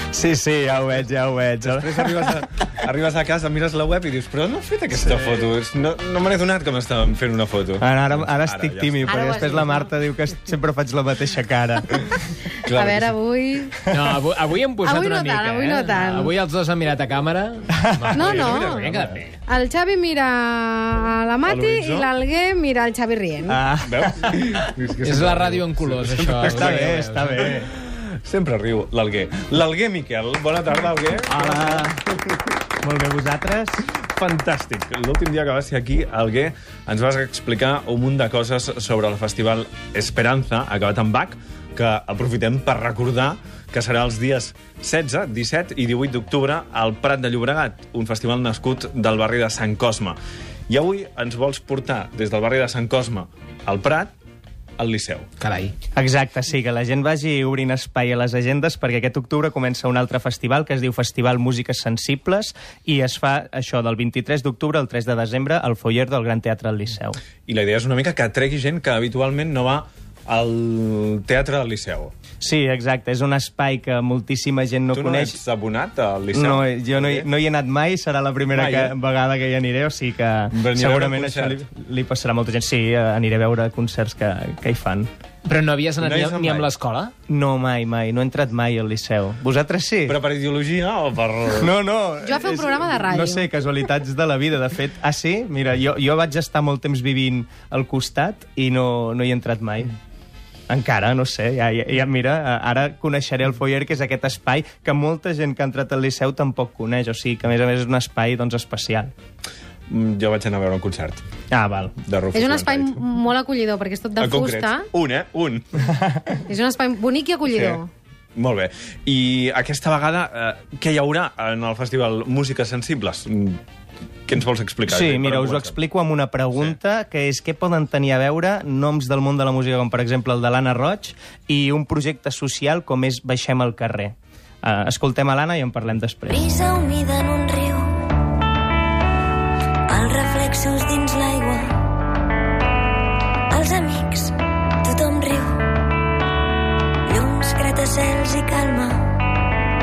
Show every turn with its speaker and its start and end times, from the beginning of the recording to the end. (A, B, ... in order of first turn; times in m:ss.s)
0:00.1-0:02.4 A
0:01.6-0:09.1 B
0:07.8-0:12.2 A
0:09.1-0:09.7 C
0:12.6-0:13.2 B
0:12.7-0:13.8 C
0:13.9-0:19.4 D
0:14.8-0:16.3 C
0:17.8-0:18.2 A
0:18.1-0:18.9 C
0:18.3-0:19.1 B
0:19.4-0:23.6 C
0:21.4-0:22.1 B
0:23.5-0:24.4 A
0:23.8-0:26.6 B
0:25.0-0:27.4 D
0:26.4-0:27.7 A
0:27.6-0:31.9 B
0:31.3-0:33.8 A
0:34.0-0:50.2 B
0:50.7-0:54.1 B
0:54.8-0:55.3 B
0:55.4-0:55.7 D
0:55.9-1:07.2 A
1:07.5-1:12.1 B
1:12.4-1:15.4 A
1:14.9-1:17.3 B
1:16.3-1:25.1 A
1:18.5-1:18.9 B
1:20.5-1:21.6 B
1:25.4-1:27.1 D
1:26.0-1:26.7 B
1:27.3-1:30.2 A
1:30.1-1:31.7 B
1:31.6-1:39.9 A
1:32.2-1:33.5 C
1:40.7-1:49.1 A
1:49.9-1:51.2 B
1:51.5-1:51.9 A
1:52.0-1:53.0 B
1:52.3-1:54.9 C
1:54.2-1:55.6 B
1:56.0-1:56.3 A
1:56.5-1:57.9 C
1:57.5-1:57.8 B
1:58.4-2:03.6 B
2:04.3-2:05.8 B
2:04.9-2:16.5 A
2:16.3-2:17.9 E
2:19.9-2:21.7 E
2:23.5-2:25.5 E
2:27.1-2:29.0 E